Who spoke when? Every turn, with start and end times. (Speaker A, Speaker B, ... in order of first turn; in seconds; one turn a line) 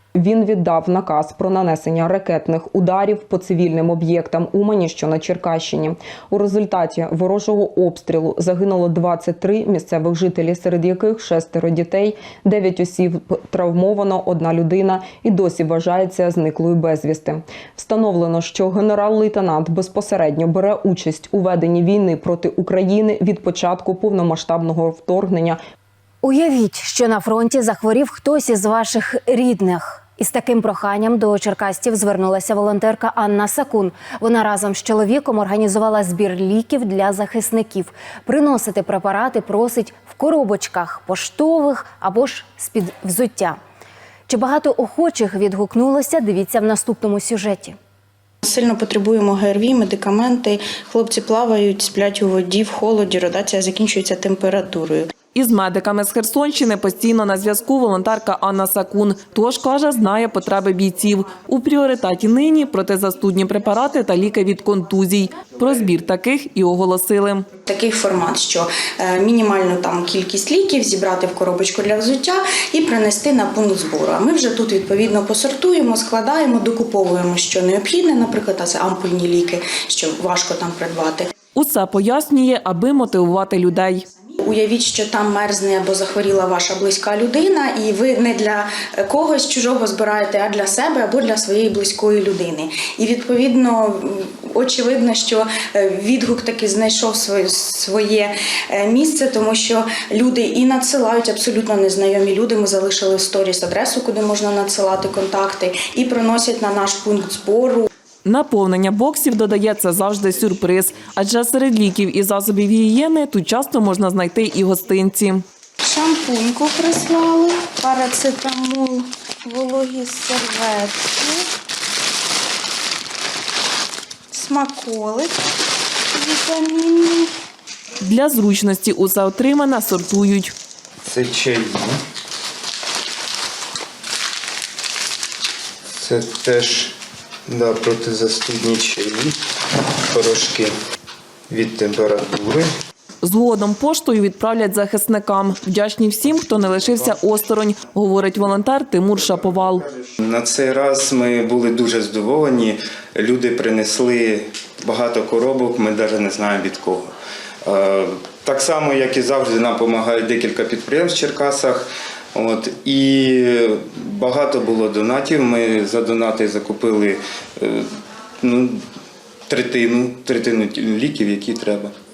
Speaker A: 0.2-25.6
Speaker B: 26.2-43.6
Speaker B: 44.3-47.8
Speaker C: 48.4-55.1
Speaker D: 55.3-67.5
Speaker C: 67.7-81.3
Speaker D: 81.5-84.1
Speaker C: 84.4-107.9
Speaker D: 108.2-115.5
Speaker C: 115.9-121.3
Speaker C: 124.3-125.3
Speaker C: 126.2-127.2
Speaker D: 128.0-130.5
Speaker E: 131.1-131.8
Speaker E: 136.0-136.9
Speaker E: 137.5-139.3
Speaker E: 140.1-140.7
Speaker E: 141.5-142.6
Speaker D: 143.2-149.8
Speaker E: 150.2-157.1
Speaker E: 157.7-161.8
Speaker E: 162.3-167.8
Speaker E: 168.4-168.8
Speaker E: 169.5-171.9